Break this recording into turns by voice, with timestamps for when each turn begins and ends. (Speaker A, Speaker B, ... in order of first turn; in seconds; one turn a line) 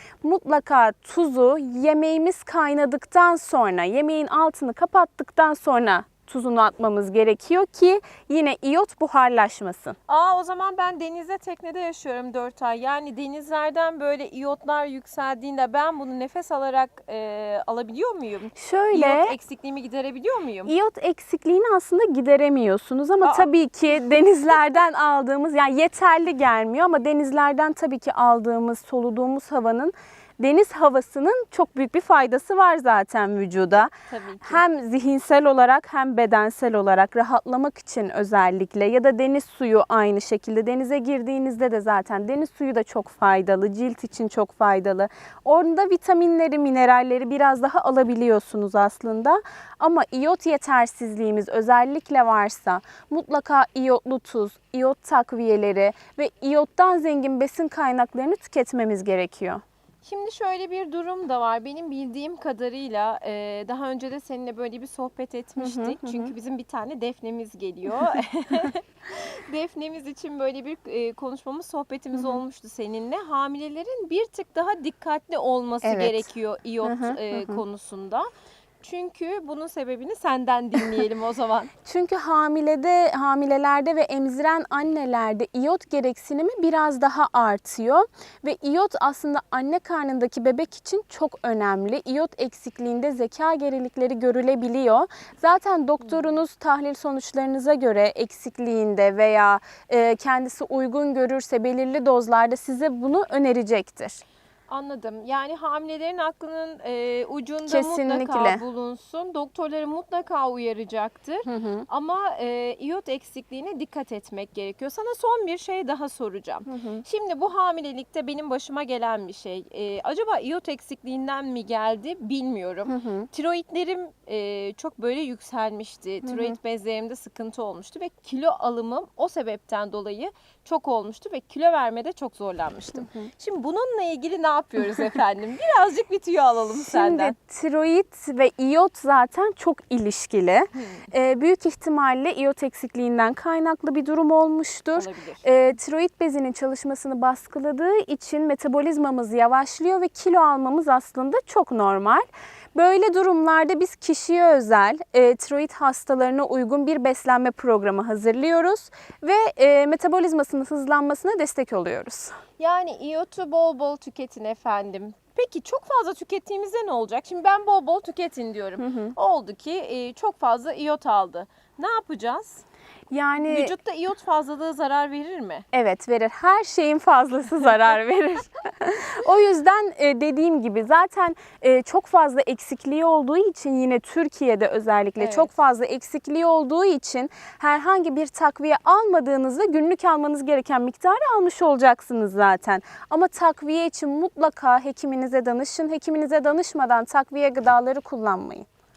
Speaker A: 0.2-9.9
Speaker B: 10.1-20.7
Speaker A: 18.6-19.3
Speaker A: 20.6-33.9
Speaker B: 23.2-23.5
Speaker B: 34.0-34.6
Speaker A: 34.4-59.6
Speaker B: 60.0-78.3
Speaker A: 65.6-66.3
Speaker A: 75.8-76.3
Speaker A: 76.8-77.6
Speaker B: 78.8-81.7
Speaker A: 81.8-104.2
Speaker B: 104.7-137.3
Speaker A: 107.7-108.6
Speaker A: 111.5-111.8
Speaker A: 116.7-117.0
Speaker A: 122.9-123.3
Speaker A: 126.2-126.6
Speaker A: 133.0-133.3
Speaker A: 136.8-162.4
Speaker B: 140.7-141.1
Speaker B: 144.9-145.4
Speaker B: 162.6-172.6
Speaker A: 168.8-169.1
Speaker A: 173.1-173.7
Speaker B: 173.4-175.7
Speaker A: 175.7-198.7
Speaker B: 185.2-185.5